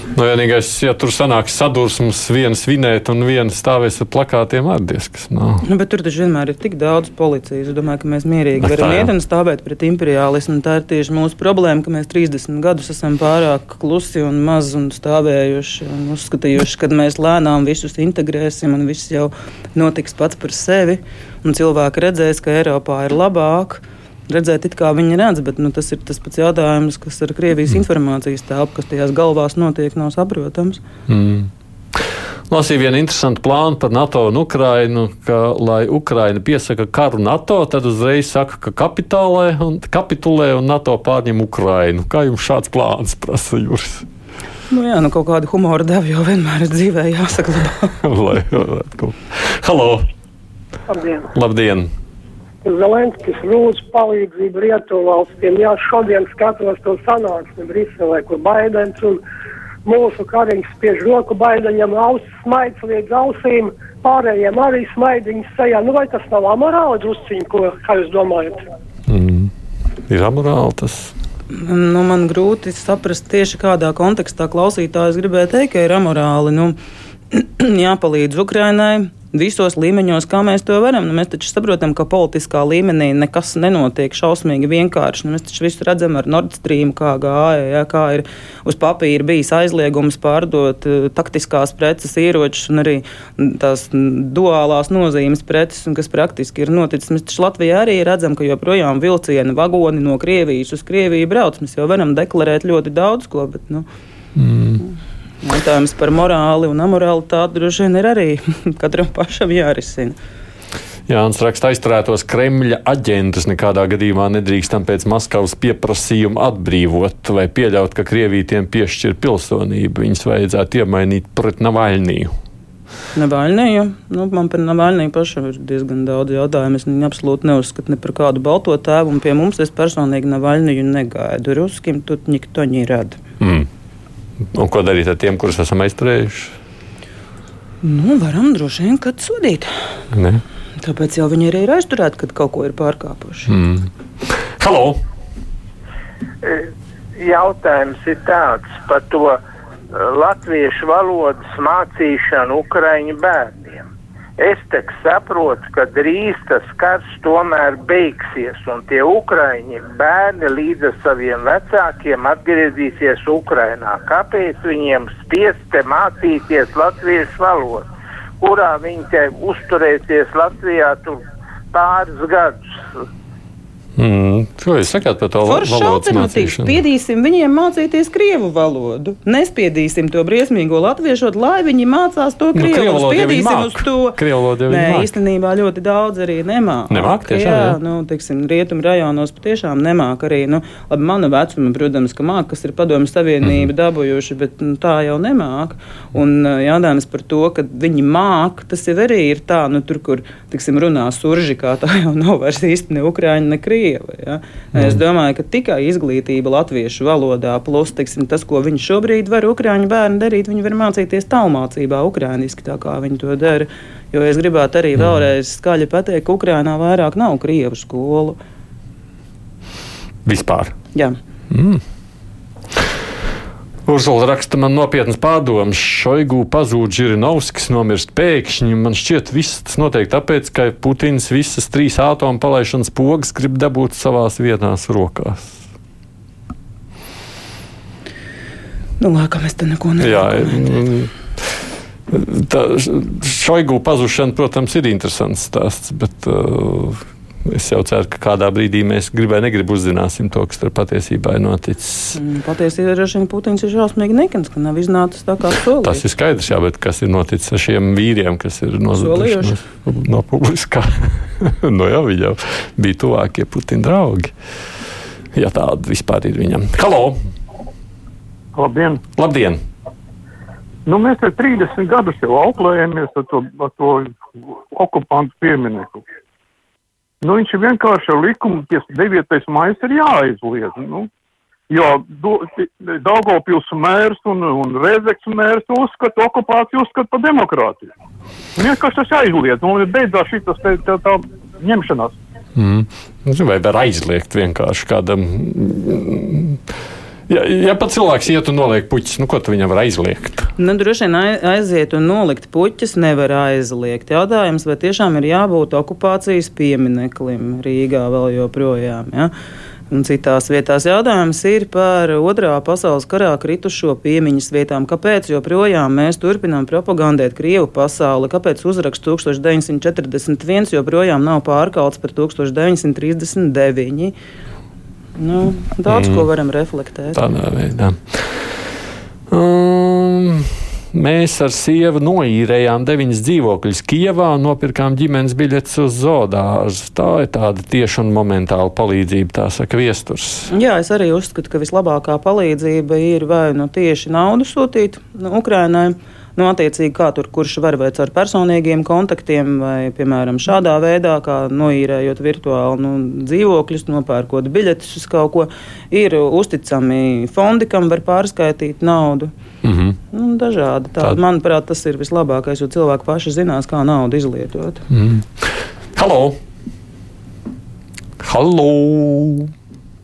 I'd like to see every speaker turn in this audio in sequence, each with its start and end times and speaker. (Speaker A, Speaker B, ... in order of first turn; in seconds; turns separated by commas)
Speaker A: 0.1-5.6, Speaker B: 5.6-30.8, Speaker A: 8.6-9.1, Speaker A: 31.1-44.0, Speaker B: 44.7-48.0, Speaker A: 48.0-50.1, Speaker C: 50.9-51.3, Speaker A: 51.3-51.9, Speaker C: 52.6-59.2, Speaker C: 59.9-68.7, Speaker A: 69.1-69.5, Speaker A: 70.1-71.1, Speaker B: 71.5-76.8, Speaker B: 77.3-103.8, Speaker A: 104.3-104.8, Speaker B: 105.4-110.2, Speaker A: 111.1-122.3, Speaker B: 123.1-133.2, Speaker A: 133.4-133.7, Speaker A: 134.5-136.6, Speaker B: 137.8-139.7, Speaker A: 140.1-140.4, Speaker B: 140.8-143.5, Speaker A: 143.5-143.9, Speaker A: 144.6-145.0, Speaker D: 146.4-149.4, Speaker D: 149.9-153.8, Speaker D: 154.4-167.9, Speaker D: 168.4-171.2, Speaker D: 171.7-172.6, Speaker A: 173.9-176.8, Speaker B: 175.4-218.4, Speaker A: 182.5-185.1, Speaker A: 186.9-187.8, Speaker A: 193.4-193.7, Speaker A: 204.7-205.0, Speaker A: 214.9-215.2, Speaker A: 220.2-220.8, Speaker A: 221.5-221.8, Speaker A: 223.8-235.6, Speaker B: 239.0-240.6, Speaker A: 240.0-241.5, Speaker A: 242.1-252.2, Speaker B: 252.1-256.0, Speaker A: 255.8-264.3, Speaker B: 258.9-259.6, Speaker A: 265.3-267.2, Speaker E: 268.5-269.0, Speaker A: 269.1-269.6, Speaker E: 270.9-274.2, Speaker E: 274.7-276.0, Speaker E: 277.2-281.1, Speaker E: 281.7-287.9, Speaker E: 288.6-292.2, Speaker A: 292.6-296.6, Speaker A: 297.3-300.5, Speaker B: 300.6-309.3, Speaker B: 309.9-324.1, Speaker B: 325.2-327.2, Speaker A: 325.9-326.3, Speaker A: 327.1-328.4, Speaker A: 329.3-340.5, Speaker B: 340.5-359.3, Speaker A: 359.6-360.0, Speaker B: 360.1-364.8, Speaker A: 364.9-366.4, Speaker A: 368.2-369.5